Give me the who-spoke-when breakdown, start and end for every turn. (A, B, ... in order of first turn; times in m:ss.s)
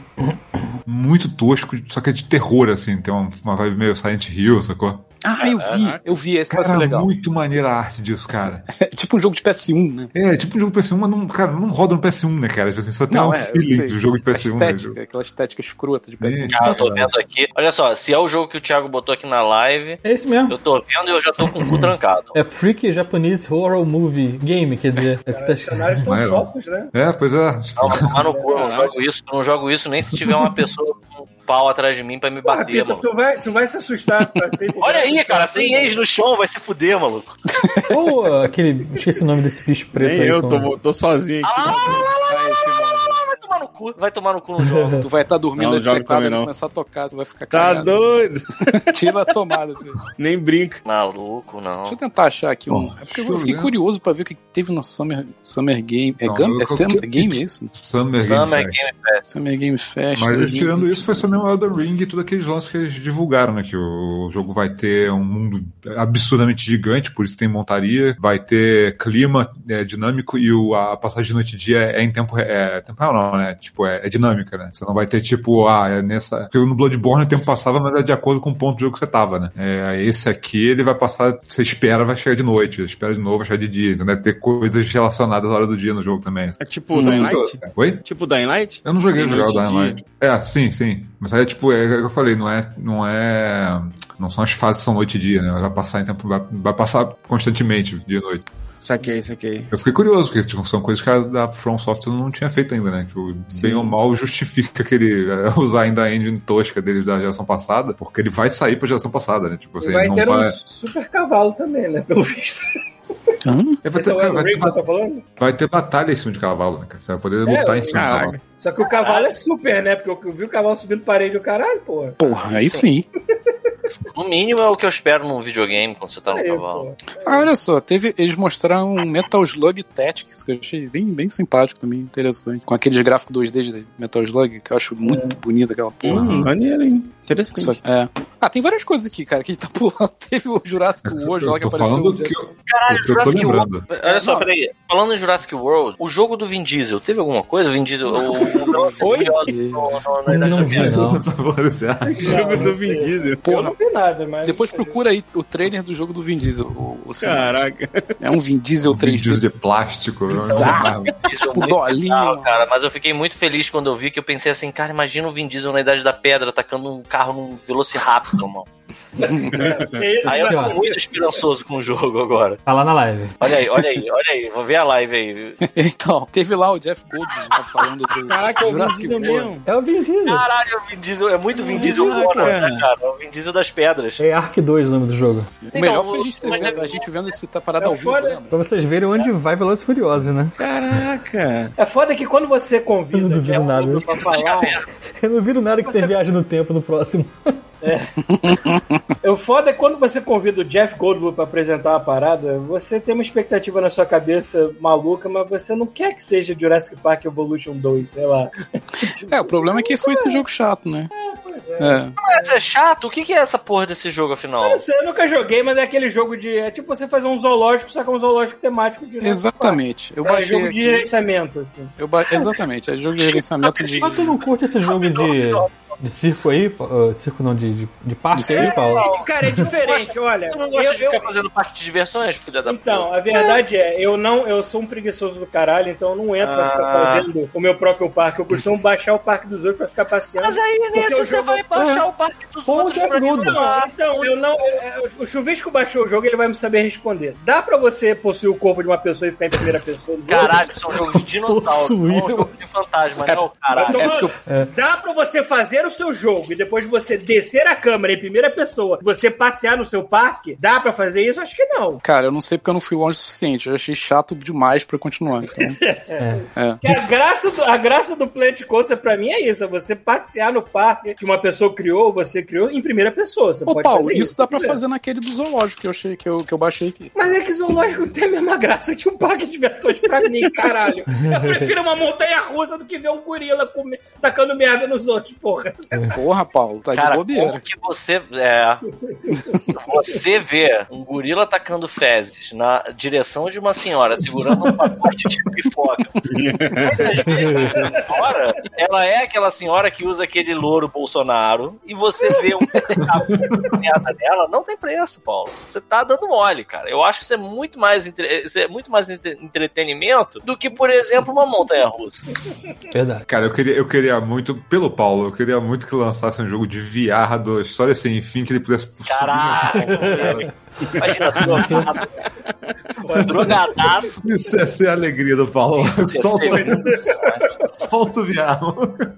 0:00.8-0:05.1 A
0:05.2-0:07.1 B
0:05.4-0:06.1 C
0:06.5-0:08.7 A
0:08.7-0:10.1 B
0:10.1-0:15.0 A
0:13.1-0:16.8 B
0:16.2-0:17.2 A
0:16.5-0:22.4 C
0:20.0-0:20.6 D
0:21.6-0:25.8 D
0:25.3-0:26.9 E
0:26.0-0:28.2 A
0:27.8-0:33.1 C
0:28.1-0:28.6 E
0:28.5-0:28.9 F
0:30.1-0:30.5 A
0:32.5-0:36.0 E
0:34.8-0:37.4 C
0:37.5-0:38.0 B
0:37.9-0:40.7 D
0:39.9-0:42.1 F
0:41.4-0:45.1 C
0:41.6-0:43.2 B
0:44.6-0:45.0 D
0:45.0-0:48.0 B
0:45.6-0:46.5 F
0:47.5-0:49.3 F
0:48.9-0:50.0 B
0:50.2-0:50.8 F
0:50.8-0:52.0 C
0:51.9-0:57.7 B
0:52.7-0:53.7 A
0:56.2-0:58.9 A
0:58.3-0:59.2 C
0:59.3-1:01.2 B
1:00.2-1:28.0 A
1:26.6-1:30.0 F
1:26.9-1:27.3 B
1:28.8-1:38.5 A
1:38.8-1:39.7 F
1:39.7-1:50.6 A
1:43.6-1:43.9 B
1:49.8-1:52.7 E
1:53.4-1:53.8 B
1:53.8-1:54.8 A
1:53.9-1:55.2 E
1:55.4-1:58.4 A
1:57.5-2:02.2 E
1:57.9-1:58.4 B
1:58.8-1:59.3 C
2:02.2-2:03.1 B
2:02.3-2:02.8 C
2:04.1-2:06.9 C
2:06.3-2:07.5 E
2:07.2-2:16.5 B
2:15.0-2:15.4 E
2:16.0-2:17.8 F
2:16.1-2:16.5 A
2:17.6-2:22.5 B
2:21.0-2:23.8 A
2:22.7-2:31.1 C
2:24.0-2:24.5 B
2:28.4-2:30.0 B
2:29.0-2:29.3 E
2:30.3-2:31.2 D
2:30.6-2:32.7 A
2:32.1-2:35.0 E
2:32.2-2:33.6 F
2:33.4-2:33.7 B
2:34.4-2:37.6 B
2:37.2-2:38.2 F
2:38.2-2:39.4 B
2:38.9-2:41.2 A
2:40.4-2:42.5 B
2:40.6-2:48.7 C
2:49.2-2:51.4 E
2:49.2-2:49.5 B
2:49.5-2:50.0 F
2:50.2-2:52.6 C
2:50.5-2:50.8 D
2:52.7-2:53.4 D
2:53.4-2:55.6 C
2:55.6-2:59.5 B
2:57.3-2:57.6 C
2:58.2-2:59.6 F
2:59.6-3:00.5 D
3:00.2-3:04.2 C
3:01.6-3:02.9 F
3:01.7-3:02.6 B
3:04.2-3:05.5 D
3:05.7-3:07.4 C
3:05.7-3:08.6 B
3:07.8-3:08.4 E
3:08.5-3:10.6 D
3:10.6-3:11.7 F
3:11.8-3:14.8 E
3:13.1-3:14.1 D
3:13.5-3:14.9 C
3:15.2-3:17.6 D
3:15.8-3:16.2 E
3:17.8-3:18.6 E
3:18.3-3:19.0 B
3:19.2-3:30.4 E
3:29.3-3:31.1 B
3:31.1-3:32.6 E
3:31.8-3:32.2 B
3:32.2-3:34.8 C
3:34.6-3:41.9 E
3:39.2-3:41.1 B
3:42.0-3:44.3 B
3:43.2-3:44.2 C
3:44.0-3:49.1 D
3:44.8-3:45.7 C
3:48.3-3:48.9 B
3:48.5-3:53.5 C
3:48.5-3:51.3 E
3:52.7-4:01.7 E
3:56.4-3:57.3 C
4:00.4-4:04.3 C
4:01.8-4:02.0 D
4:02.7-4:03.6 D
4:03.1-4:10.6 E
4:10.3-4:14.2 C
4:10.9-4:12.5 D
4:13.7-4:22.0 E
4:13.9-4:14.4 B
4:14.4-4:14.7 D
4:22.0-4:25.8 B
4:25.6-4:34.8 E
4:26.2-4:27.0 D
4:26.6-4:26.8 B
4:33.7-4:37.1 B
4:37.2-4:46.0 E
4:41.2-4:41.7 D
4:46.1-4:47.6 B
4:47.0-4:48.8 C
4:49.3-4:49.6 B
4:49.7-4:56.2 C
4:56.2-4:57.2 F
4:56.8-5:12.3 C
4:56.9-4:58.3 E
5:02.7-5:03.1 B
5:03.3-5:03.7 A
5:12.9-5:13.3 D
5:13.3-5:20.5 A
5:19.1-5:20.5 C
5:21.0-5:22.2 C
5:22.9-5:24.1 E
5:23.2-5:24.2 C
5:24.2-5:27.0 A
5:25.7-5:27.5 C
5:26.5-5:27.5 E
5:27.7-5:29.1 A